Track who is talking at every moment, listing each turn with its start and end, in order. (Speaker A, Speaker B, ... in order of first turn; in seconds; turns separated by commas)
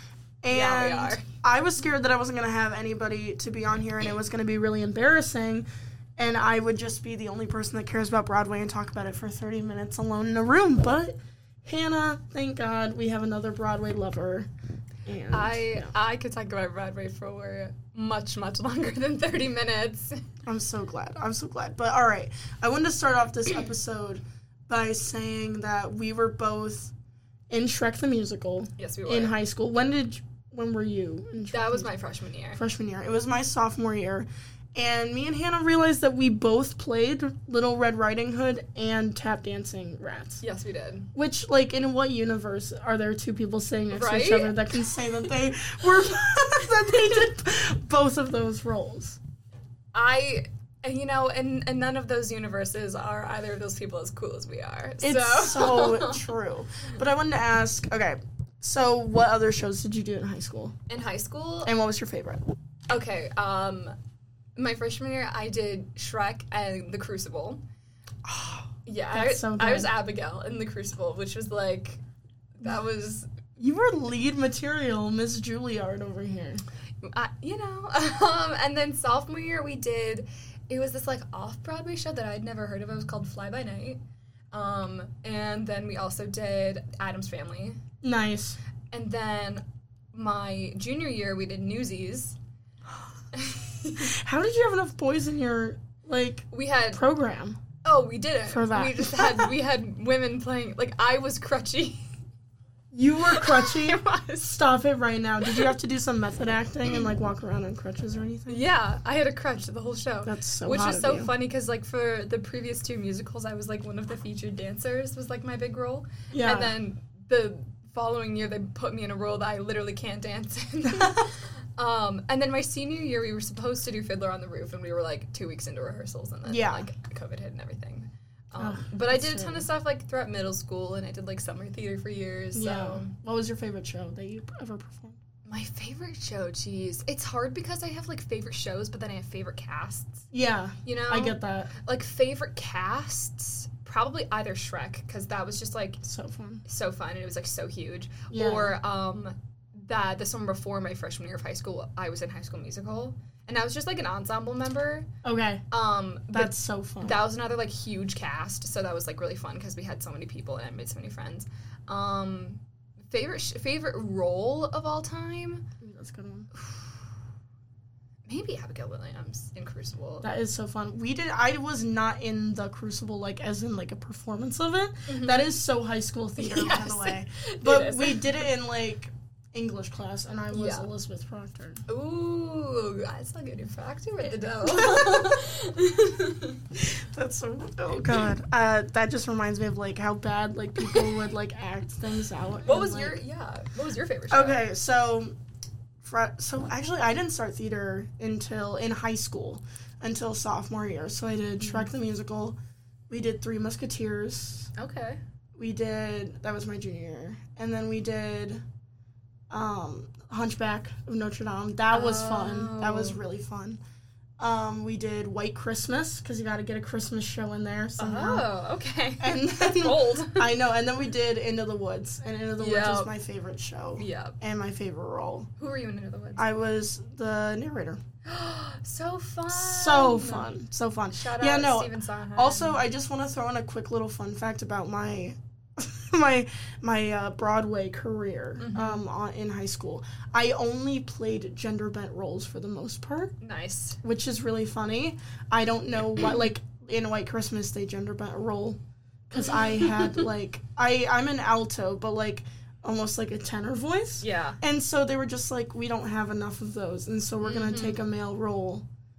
Speaker A: 0.4-5.7, Speaker B: 0.5-1.2, Speaker A: 6.2-14.5, Speaker A: 15.1-15.9, Speaker B: 15.3-20.2, Speaker A: 20.4-26.9, Speaker A: 27.5-31.9, Speaker B: 28.8-29.4, Speaker B: 31.5-32.6, Speaker A: 32.5-40.4, Speaker B: 40.4-41.1, Speaker A: 41.1-49.2, Speaker B: 43.9-44.8, Speaker B: 50.0-56.2, Speaker A: 55.0-60.7, Speaker B: 60.9-61.7, Speaker A: 61.6-62.5, Speaker B: 62.9-64.0, Speaker B: 64.6-67.6, Speaker A: 68.3-69.9, Speaker B: 68.8-72.0, Speaker B: 72.5-73.3, Speaker A: 73.6-76.6, Speaker B: 77.0-84.0, Speaker B: 84.5-87.8, Speaker A: 88.0-88.6, Speaker B: 88.9-92.4, Speaker B: 93.3-94.1, Speaker A: 94.0-97.6, Speaker B: 96.5-97.0, Speaker B: 97.8-102.0, Speaker A: 98.5-99.5, Speaker A: 102.9-108.6, Speaker B: 103.3-104.6, Speaker B: 108.5-133.1, Speaker A: 110.2-111.3, Speaker A: 116.3-116.7, Speaker A: 120.9-121.3, Speaker A: 126.5-126.9, Speaker A: 128.6-129.7, Speaker A: 132.5-135.2, Speaker B: 135.5-140.3, Speaker A: 140.3-141.7, Speaker B: 140.8-146.0, Speaker A: 146.0-146.6, Speaker B: 146.7-155.1, Speaker A: 148.3-148.8, Speaker A: 155.2-155.6, Speaker B: 155.7-165.7, Speaker A: 156.3-157.2, Speaker A: 165.8-166.5, Speaker B: 166.6-166.9, Speaker B: 168.3-170.3, Speaker A: 170.2-181.8, Speaker B: 175.1-175.5, Speaker B: 176.4-178.5, Speaker B: 180.5-180.9, Speaker B: 181.9-186.6, Speaker A: 184.6-185.5, Speaker A: 186.7-193.2, Speaker B: 192.7-194.6, Speaker A: 194.3-195.3, Speaker A: 196.0-202.6, Speaker B: 201.6-201.9, Speaker A: 203.1-204.7, Speaker B: 204.8-205.2, Speaker A: 205.6-208.6, Speaker A: 209.5-213.8, Speaker B: 211.9-213.2, Speaker A: 214.4-218.5, Speaker B: 218.0-220.5, Speaker A: 219.2-225.5, Speaker B: 222.6-223.1, Speaker B: 224.0-224.4, Speaker B: 225.6-226.4, Speaker A: 226.4-228.0, Speaker B: 228.2-230.5, Speaker A: 229.5-243.3, Speaker B: 231.1-232.8, Speaker B: 238.6-239.0, Speaker B: 243.4-244.0, Speaker A: 244.0-258.9, Speaker B: 249.4-250.2, Speaker B: 254.2-254.6, Speaker B: 257.4-258.0